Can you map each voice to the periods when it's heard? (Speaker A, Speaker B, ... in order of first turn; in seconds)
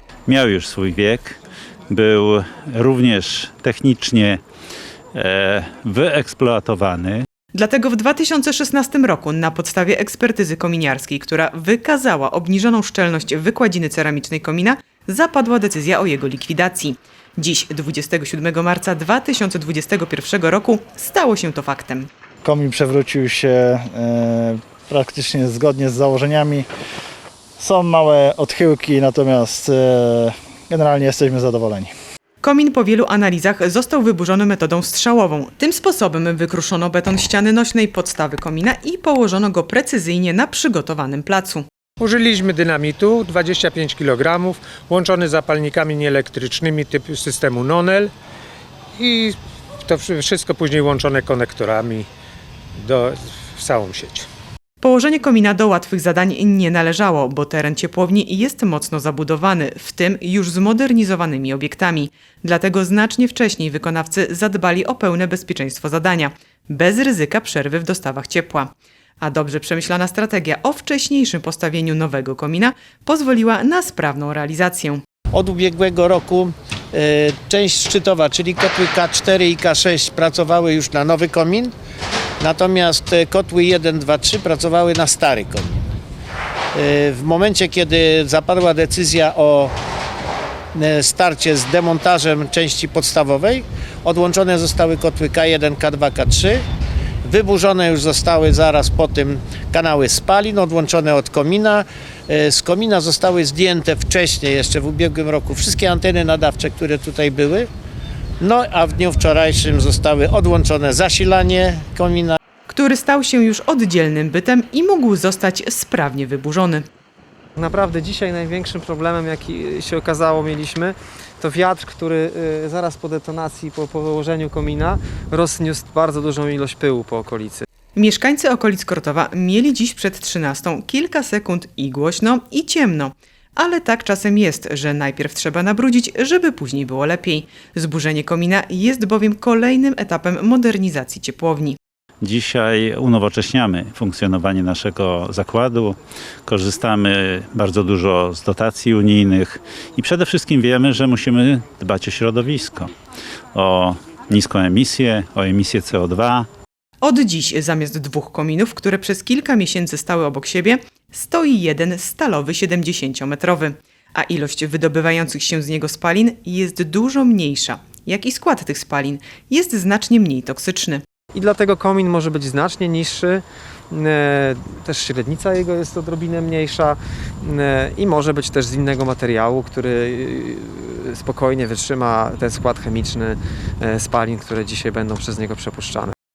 Speaker A: 0.3-4.4, 5.1-7.2, 142.2-152.9, 153.6-156.5
Speaker B: 7.5-22.1, 32.4-41.7, 54.8-68.7, 69.2-75.0, 112.7-116.8, 128.0-141.8, 157.0-171.0
Speaker C: 22.4-26.7, 27.6-31.9
Speaker D: 42.0-48.1, 49.0-52.1, 52.8-54.3
Speaker E: 75.3-81.7, 82.4-85.9, 86.7-89.8, 90.7-96.7, 97.2-107.7, 108.4-112.4
Speaker F: 117.6-127.7, 171.3-186.1